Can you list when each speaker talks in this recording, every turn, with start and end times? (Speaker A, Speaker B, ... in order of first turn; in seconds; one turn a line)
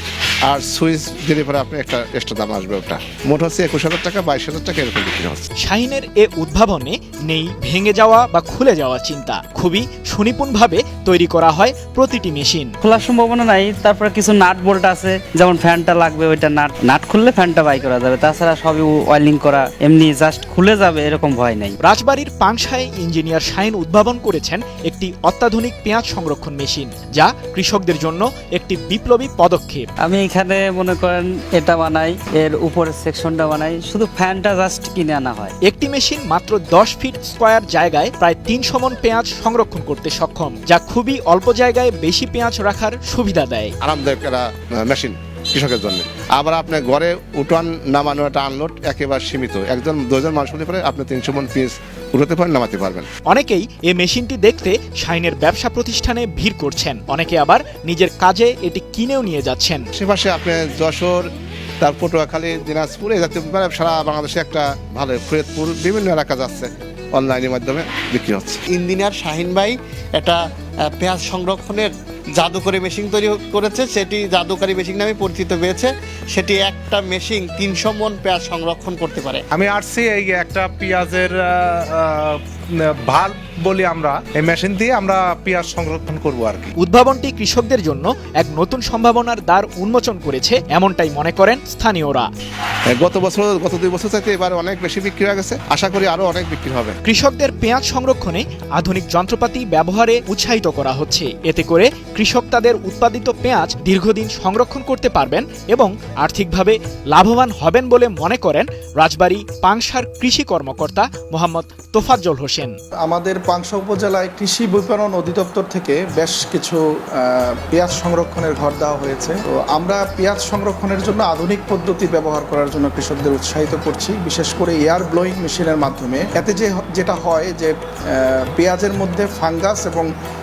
Speaker A: 0.5-5.5
Speaker B: 5.6-12.7
Speaker C: 12.8-21.8
Speaker B: 21.8-29.9
Speaker C: 30.0-35.5
Speaker B: 35.6-43.7
Speaker A: 43.8-53.1
Speaker B: 53.3-59.9
Speaker A: 60.0-61.3
Speaker A: 61.8-68.6
Speaker D: 68.7-70.4
Speaker D: 70.9-79.4
Speaker E: 79.5-86.7
Speaker B: 86.8-92.3
Speaker A: 92.9-97.0
Speaker B: 97.0-112.8
Speaker F: 113.0-130.1